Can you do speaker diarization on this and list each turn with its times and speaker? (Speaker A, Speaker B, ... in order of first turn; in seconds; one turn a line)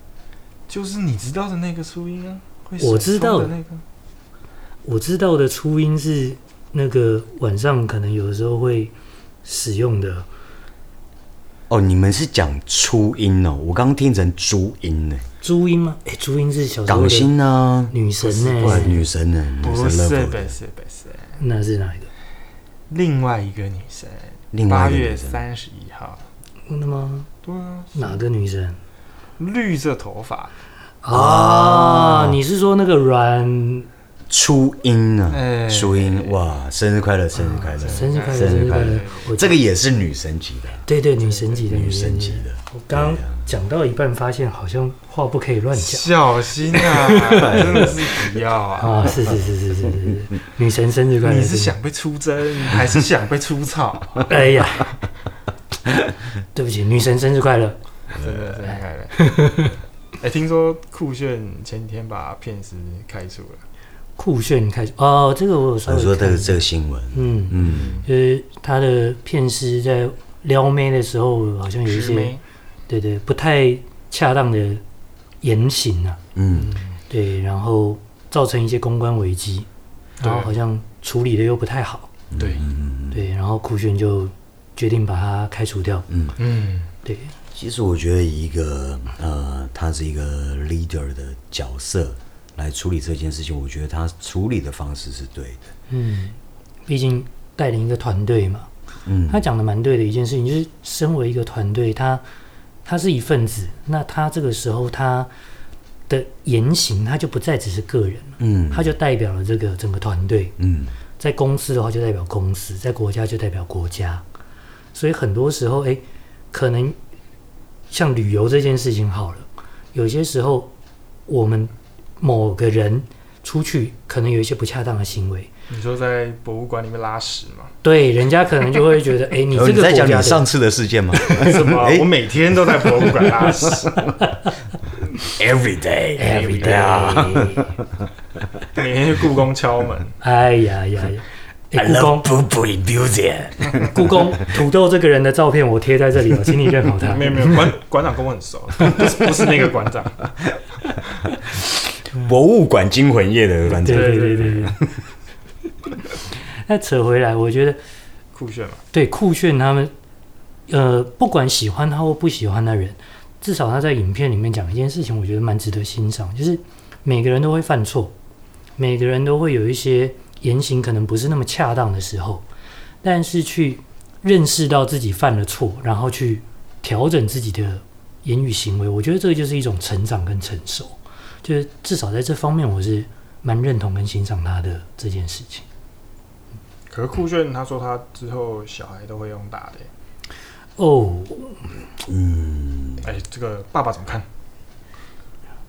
Speaker A: 0.7-3.8
Speaker B: 2.8-3.5
Speaker B: 4.8-10.2
Speaker C: 11.7-15.2
Speaker B: 15.4-17.3
Speaker C: 16.9-20.5
Speaker B: 17.9-19.0
Speaker A: 18.4-19.0
Speaker A: 19.6-21.4
Speaker B: 21.4-22.1
Speaker A: 22.9-26.3
Speaker C: 24.5-25.4
Speaker B: 26.7-27.3
Speaker A: 27.4-28.2
Speaker B: 27.9-28.8
Speaker A: 29.4-30.6
Speaker B: 31.0-33.9
Speaker C: 31.1-32.4
Speaker C: 34.3-40.9
Speaker A: 35.3-36.4
Speaker A: 37.4-39.3
Speaker B: 37.8-39.5
Speaker B: 40.9-46.1
Speaker A: 41.2-41.5
Speaker C: 41.6-43.4
Speaker A: 45.7-49.2
Speaker B: 46.8-47.9
Speaker B: 48.8-51.8
Speaker A: 51.2-54.3
Speaker B: 54.3-54.9
Speaker B: 56.5-57.8
Speaker A: 58.1-63.6
Speaker B: 59.1-59.7
Speaker B: 64.2-72.3
Speaker C: 65.8-68.0
Speaker A: 67.6-68.1
Speaker A: 71.8-72.4
Speaker B: 72.9-74.8
Speaker B: 75.4-76.2
Speaker C: 76.3-76.8
Speaker A: 76.5-77.0
Speaker B: 77.1-79.7
Speaker A: 80.2-80.5
Speaker B: 80.2-82.1
Speaker C: 82.3-83.2
Speaker A: 82.4-82.7
Speaker B: 83.1-86.0
Speaker C: 86.1-86.4
Speaker A: 86.4-86.9
Speaker B: 87.0-87.3
Speaker C: 87.5-95.7
Speaker B: 95.9-98.7
Speaker C: 99.0-99.4
Speaker B: 99.3-102.2
Speaker B: 102.8-105.3
Speaker B: 106.1-110.5
Speaker C: 108.4-108.9
Speaker C: 110.6-110.9
Speaker B: 111.2-114.2
Speaker B: 114.9-117.0
Speaker B: 117.9-120.7
Speaker B: 121.3-125.5
Speaker A: 125.7-127.7
Speaker B: 127.8-130.4
Speaker C: 129.5-132.1
Speaker A: 131.2-134.1
Speaker C: 133.0-133.8
Speaker C: 135.2-138.0
Speaker B: 136.2-137.8
Speaker A: 136.2-137.3
Speaker A: 138.7-140.1
Speaker B: 140.2-142.3
Speaker C: 141.7-144.3
Speaker B: 143.8-147.6
Speaker A: 147.0-150.3
Speaker C: 151.5-154.8
Speaker A: 153.8-154.7
Speaker B: 153.8-154.8
Speaker B: 156.5-157.8
Speaker A: 158.3-158.8
Speaker B: 158.9-159.9
Speaker B: 160.7-168.1
Speaker B: 168.8-172.5
Speaker B: 173.0-185.7
Speaker A: 186.9-189.9
Speaker B: 190.8-191.6
Speaker C: 192.0-193.1
Speaker A: 193.0-194.2